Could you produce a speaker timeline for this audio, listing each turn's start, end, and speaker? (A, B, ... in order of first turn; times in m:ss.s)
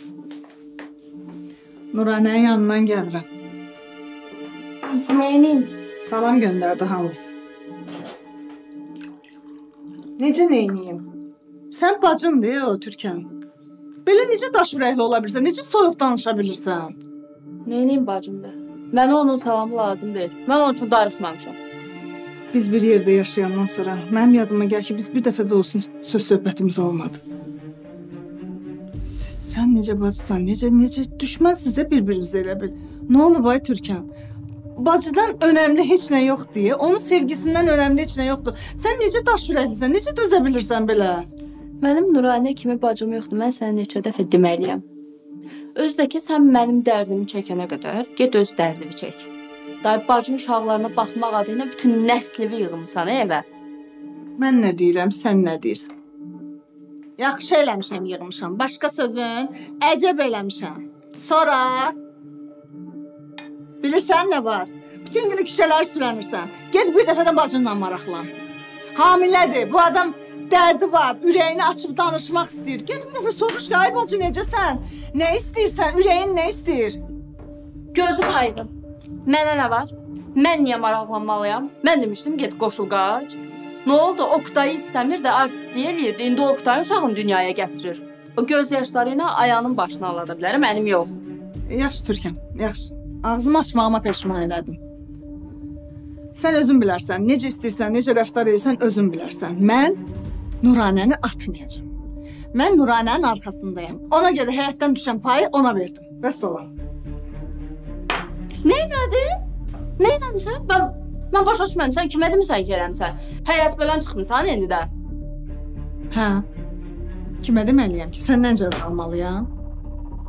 0:01.9-0:03.2 A
0:04.9-0:05.7 B
0:06.0-0:07.3 A
0:10.2-0:11.0 A
0:11.7-0:13.3 A
0:14.0-0:17.0 A
0:17.7-0:21.6 B
0:22.5-0:27.2 A
0:29.0-0:34.1 A
0:34.8-0:41.2 A
0:41.8-0:44.8 B
0:45.8-0:49.3 B
0:49.8-0:53.4 B
0:54.4-0:55.9 A
0:57.2-1:01.9 A
1:03.8-1:08.3 A
1:09.0-1:17.0 A
1:17.9-1:18.7 B
1:19.3-1:31.2 B
1:31.7-1:34.8 A
1:36.3-1:40.0 A
1:40.6-1:41.8 A
1:42.5-1:46.7 A
1:48.6-1:49.4 B
1:50.0-1:54.9 B
1:56.1-1:56.4 A
1:57.4-1:59.5 A